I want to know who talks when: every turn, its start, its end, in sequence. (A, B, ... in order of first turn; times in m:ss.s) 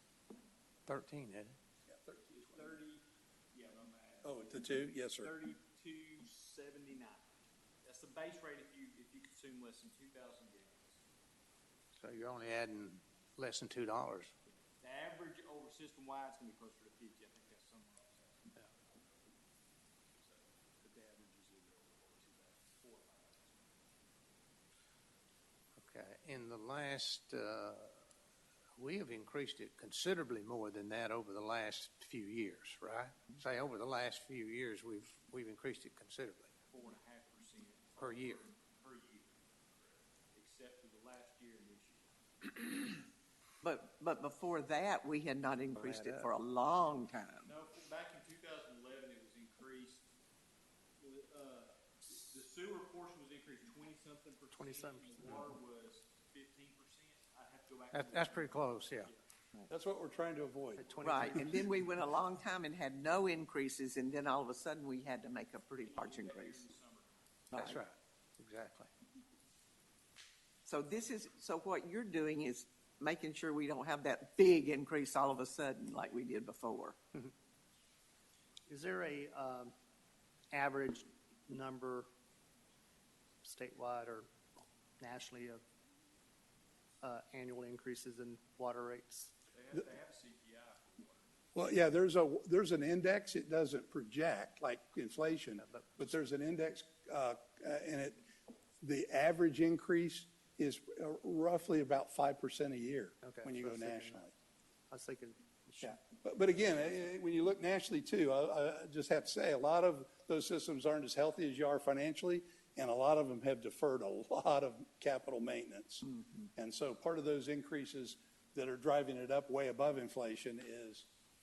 0:00.8-0:01.6 A
0:01.9-0:02.7 B
0:02.1-0:07.2 C
0:04.2-0:05.3 B
0:07.8-0:11.0 C
0:11.9-0:14.3 A
0:14.8-0:19.2 C
0:20.1-0:23.7 C
0:25.8-0:28.0 A
0:28.8-0:36.5 A
0:36.7-0:42.6 C
0:38.0-0:38.4 A
0:43.6-0:47.5 D
0:45.8-0:46.3 A
0:47.4-0:50.1 C
0:51.0-0:59.2 C
0:54.6-0:55.2 E
0:57.9-0:59.1 A
0:59.7-1:01.4 B
1:00.8-1:01.4 C
1:01.0-1:06.6 D
1:05.8-1:07.2 C
1:07.5-1:07.8 D
1:07.5-1:08.9 A
1:10.6-1:17.0 D
1:18.7-1:19.7 E
1:20.5-1:22.1 E
1:23.4-1:24.3 E
1:25.0-1:25.6 E
1:27.0-1:29.3 E
1:29.5-1:31.3 C
1:31.5-1:38.3 B
1:35.6-1:36.1 E
1:38.8-1:44.3 B
1:43.2-1:44.3 E
1:44.9-1:46.0 E
1:45.8-2:01.0 B